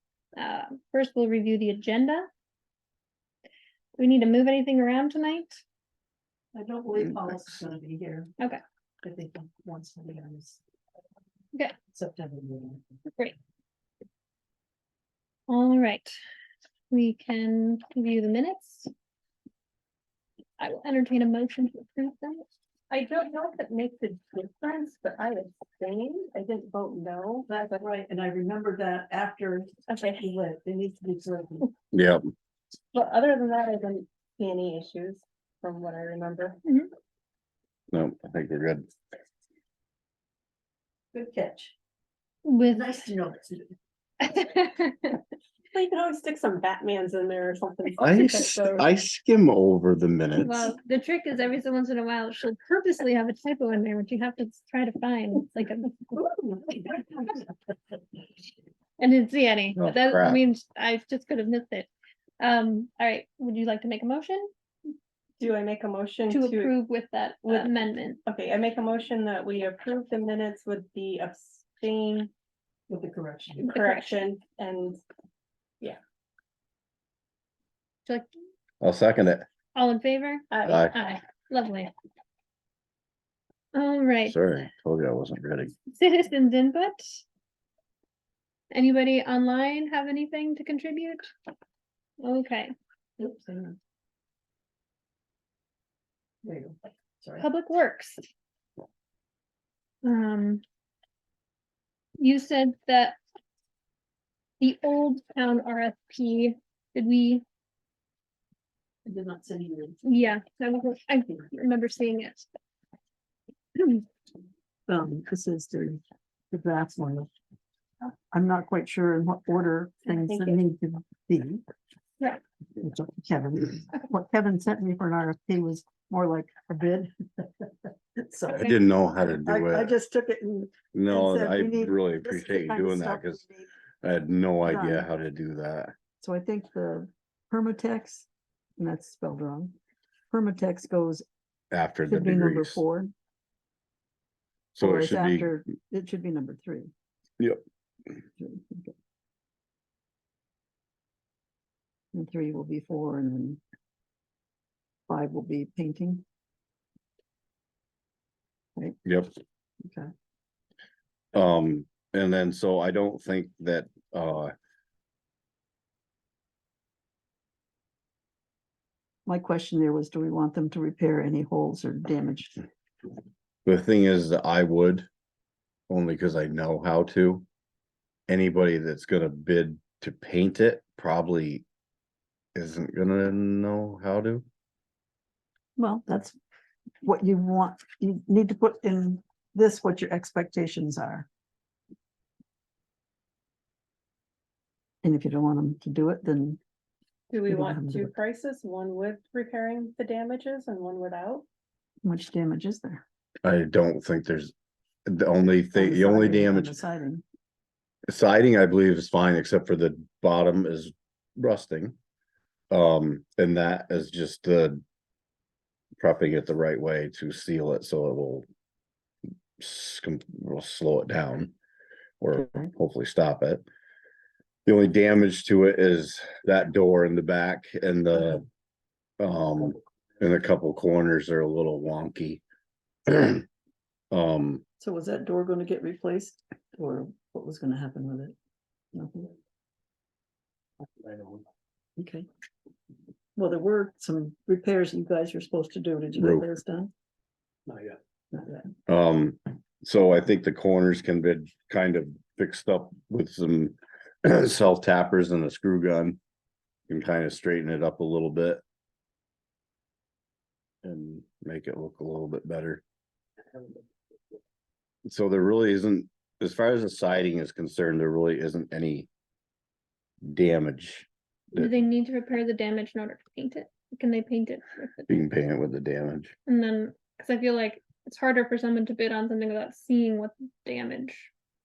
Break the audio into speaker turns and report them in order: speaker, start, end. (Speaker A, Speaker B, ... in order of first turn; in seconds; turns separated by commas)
Speaker A: 0.4-2.3, Speaker A: 4.0-5.6, Speaker B: 6.5-8.3, Speaker B: 9.0-10.6, Speaker B: 11.9-12.8, Speaker A: 15.5-16.1, Speaker A: 16.9-18.9, Speaker A: 20.6-22.4, Speaker C: 22.9-27.5, Speaker B: 27.5-31.7, Speaker C: 29.9-30.2, Speaker D: 31.9-32.3, Speaker C: 32.9-36.6, Speaker D: 37.9-38.9, Speaker B: 41.1-41.7, Speaker A: 42.5-42.9, Speaker B: 42.7-43.8, Speaker A: 44.2-45.2, Speaker C: 45.7-48.9, Speaker D: 48.0-50.7, Speaker A: 50.4-56.2, Speaker A: 59.0-61.9, Speaker D: 59.8-60.4, Speaker A: 62.4-64.5, Speaker C: 65.4-66.7, Speaker A: 66.3-68.2, Speaker C: 67.4-67.7, Speaker C: 68.3-72.3, Speaker B: 72.9-73.7, Speaker C: 73.6-75.0, Speaker A: 73.7-74.2, Speaker D: 78.8-79.5, Speaker A: 79.8-81.9, Speaker C: 80.5-80.8, Speaker D: 80.7-81.0, Speaker A: 83.7-84.4, Speaker D: 84.3-85.7, Speaker A: 85.9-87.2, Speaker A: 88.7-91.3, Speaker A: 92.2-92.7, Speaker B: 93.2-93.8, Speaker B: 96.4-97.5, Speaker A: 97.4-98.2, Speaker A: 100.0-100.6, Speaker A: 102.2-103.2, Speaker A: 104.6-107.4, Speaker B: 109.0-110.0, Speaker A: 110.0-112.5, Speaker B: 114.9-117.3, Speaker B: 118.3-121.6, Speaker C: 120.1-120.6, Speaker B: 122.8-128.8, Speaker D: 128.5-129.9, Speaker B: 129.3-133.7, Speaker D: 130.9-133.4, Speaker D: 134.0-135.9, Speaker B: 134.7-135.1, Speaker B: 136.2-139.8, Speaker B: 140.3-141.3, Speaker D: 141.7-142.8, Speaker B: 142.1-143.1, Speaker D: 144.8-145.6, Speaker B: 144.8-146.9, Speaker B: 148.4-148.9, Speaker B: 152.1-153.6, Speaker B: 155.1-156.2, Speaker D: 159.1-159.3, Speaker B: 159.8-160.1, Speaker D: 161.3-164.5, Speaker B: 169.3-172.6, Speaker D: 173.7-175.1, Speaker D: 175.9-177.5, Speaker D: 178.3-181.7, Speaker D: 182.6-184.4, Speaker B: 185.8-186.4, Speaker B: 187.0-191.3, Speaker B: 195.0-196.6, Speaker C: 197.3-201.4, Speaker B: 197.5-198.1, Speaker B: 202.0-203.0, Speaker D: 203.4-204.5, Speaker D: 205.1-206.8, Speaker B: 205.7-207.2, Speaker D: 208.1-212.0, Speaker D: 212.7-214.8, Speaker D: 216.0-218.5, Speaker D: 219.6-221.5, Speaker D: 222.2-223.6, Speaker D: 224.7-228.4, Speaker D: 229.2-232.4, Speaker D: 233.1-233.4, Speaker D: 234.1-234.6, Speaker B: 234.8-238.3, Speaker B: 238.9-239.3, Speaker B: 242.0-242.3, Speaker B: 243.4-246.9, Speaker D: 246.2-246.5, Speaker B: 248.3-248.7, Speaker D: 248.9-256.2, Speaker D: 256.9-258.6, Speaker D: 260.8-262.8, Speaker D: 265.1-269.1, Speaker D: 270.2-271.7, Speaker A: 271.5-275.1, Speaker D: 275.1-276.3, Speaker A: 276.5-281.3